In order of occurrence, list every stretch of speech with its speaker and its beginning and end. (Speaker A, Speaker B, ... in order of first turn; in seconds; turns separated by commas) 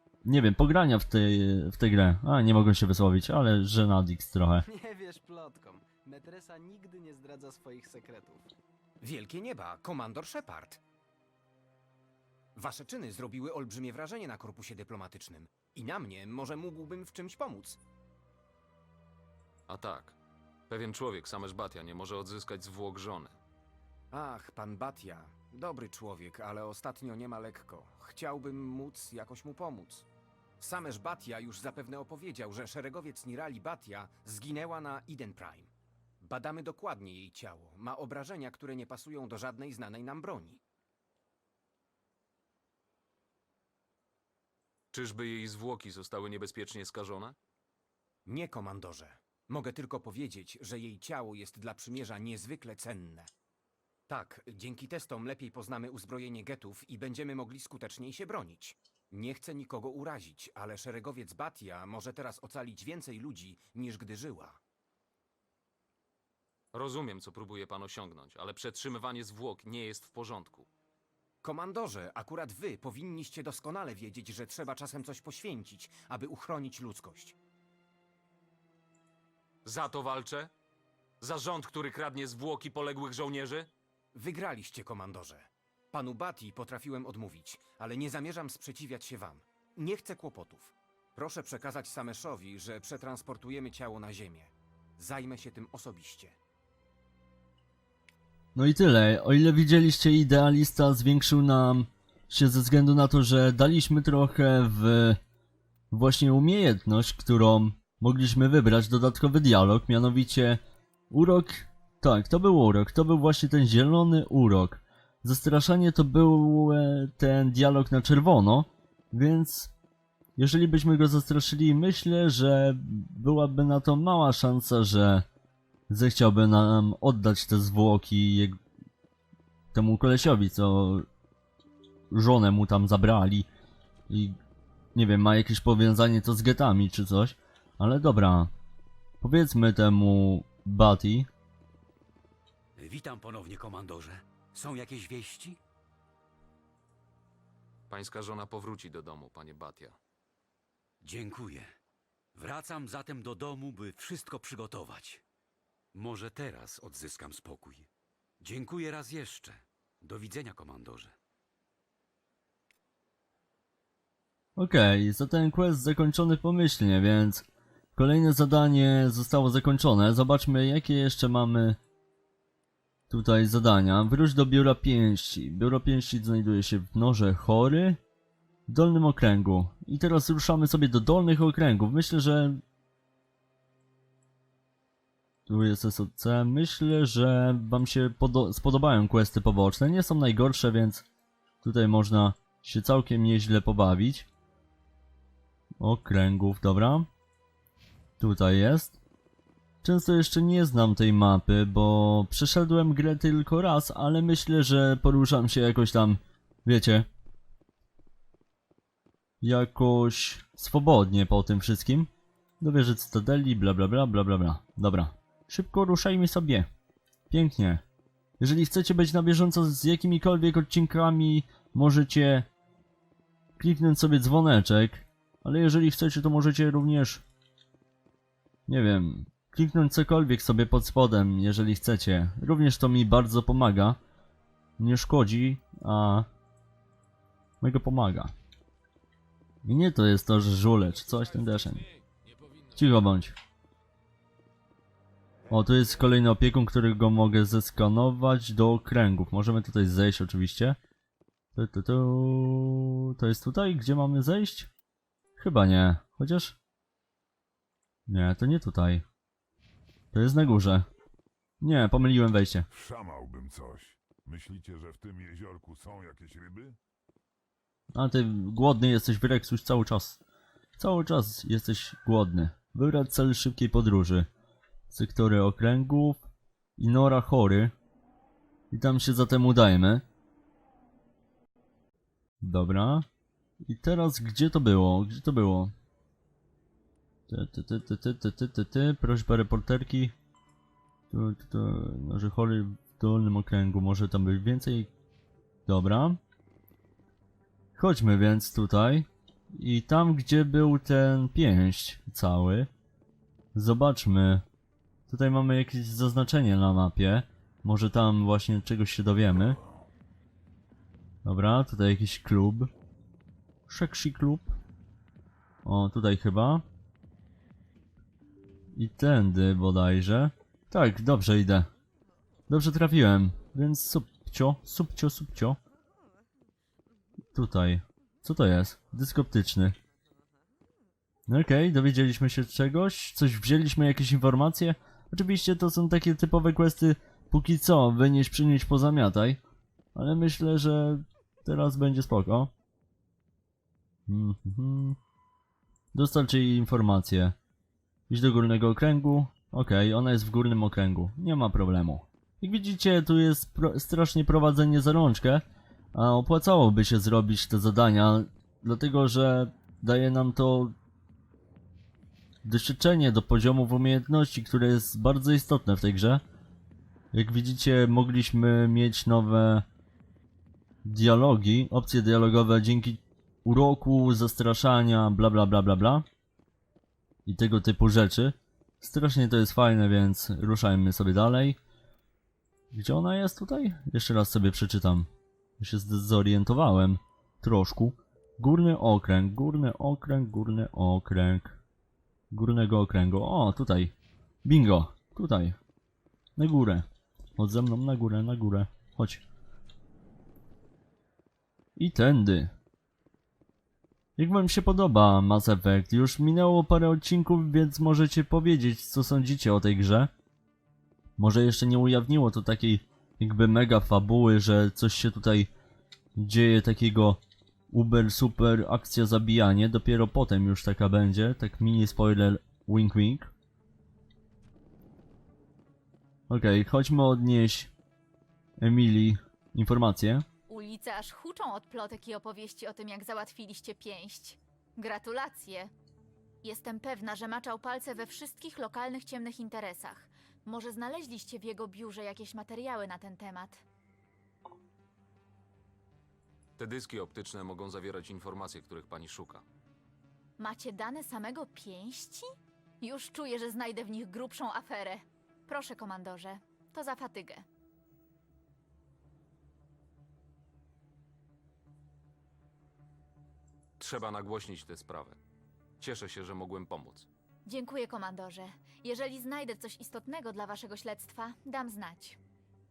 Speaker A: 0.2-4.6, Speaker B: 4.6-8.5, Speaker C: 9.0-10.8, Speaker C: 12.6-17.8, Speaker D: 19.7-20.1, Speaker D: 20.7-23.4, Speaker C: 24.1-30.1, Speaker C: 30.6-35.7, Speaker C: 36.2-40.6, Speaker D: 44.9-47.4, Speaker C: 48.3-53.3, Speaker C: 54.1-64.6, Speaker D: 66.7-70.7, Speaker C: 71.4-77.3, Speaker D: 79.6-80.5, Speaker D: 81.2-83.7, Speaker C: 84.1-96.3, Speaker A: 98.5-105.2, Speaker A: 105.9-119.7, Speaker A: 120.3-125.2, Speaker A: 125.9-128.6, Speaker A: 129.7-131.1, Speaker A: 132.1-133.5, Speaker A: 134.1-134.4, Speaker A: 134.9-138.5, Speaker A: 139.2-141.3, Speaker E: 142.8-145.6, Speaker D: 147.9-150.0, Speaker E: 151.0-151.7, Speaker E: 152.3-155.2, Speaker E: 155.9-157.9, Speaker E: 158.4-161.1, Speaker A: 164.6-167.4, Speaker A: 167.9-171.8, Speaker A: 173.1-178.0, Speaker A: 178.7-182.6, Speaker A: 185.5-191.0, Speaker A: 191.6-194.3, Speaker A: 195.8-197.1, Speaker A: 198.2-199.0, Speaker A: 199.8-207.1, Speaker A: 209.4-212.1, Speaker A: 212.6-216.7, Speaker A: 217.3-217.8, Speaker A: 218.4-222.5, Speaker A: 223.6-227.2, Speaker A: 228.7-234.0, Speaker A: 234.8-236.3, Speaker A: 237.6-238.3, Speaker A: 239.6-241.8, Speaker A: 242.7-243.3, Speaker A: 245.5-250.8, Speaker A: 251.5-254.7, Speaker A: 255.4-256.6, Speaker A: 258.1-259.0, Speaker A: 260.1-260.9, Speaker A: 261.6-262.7, Speaker F: 262.7-266.8, Speaker A: 267.9-270.2, Speaker A: 270.8-274.3, Speaker A: 274.9-276.3, Speaker A: 276.8-277.7, Speaker A: 278.7-280.0, Speaker A: 282.4-283.1, Speaker A: 283.6-285.7, Speaker A: 287.3-290.1, Speaker A: 291.1-294.9, Speaker A: 295.6-296.2, Speaker A: 297.8-302.7, Speaker A: 303.5-304.4, Speaker A: 305.1-309.6, Speaker A: 311.2-312.7, Speaker A: 313.7-314.5, Speaker A: 315.6-316.6, Speaker A: 318.7-321.7, Speaker A: 322.5-325.6, Speaker A: 327.3-329.8, Speaker A: 331.3-339.4, Speaker A: 339.9-342.5, Speaker A: 344.1-345.0, Speaker A: 345.9-347.3, Speaker A: 348.1-360.7, Speaker A: 362.4-366.2, Speaker A: 367.1-369.6, Speaker A: 370.8-376.0, Speaker A: 377.2-381.6, Speaker A: 382.7-385.1, Speaker A: 385.6-391.6, Speaker A: 392.3-393.9, Speaker A: 394.4-395.6, Speaker A: 396.4-396.9, Speaker A: 397.4-399.2, Speaker A: 401.8-402.5, Speaker A: 404.2-410.1, Speaker A: 411.2-415.5, Speaker A: 416.2-417.2, Speaker A: 417.7-423.3, Speaker A: 426.3-427.7, Speaker A: 428.6-430.2, Speaker G: 430.5-435.7, Speaker G: 436.4-443.6, Speaker D: 446.6-449.4, Speaker G: 450.4-457.4, Speaker D: 463.8-465.2, Speaker D: 465.8-467.1, Speaker G: 467.4-472.2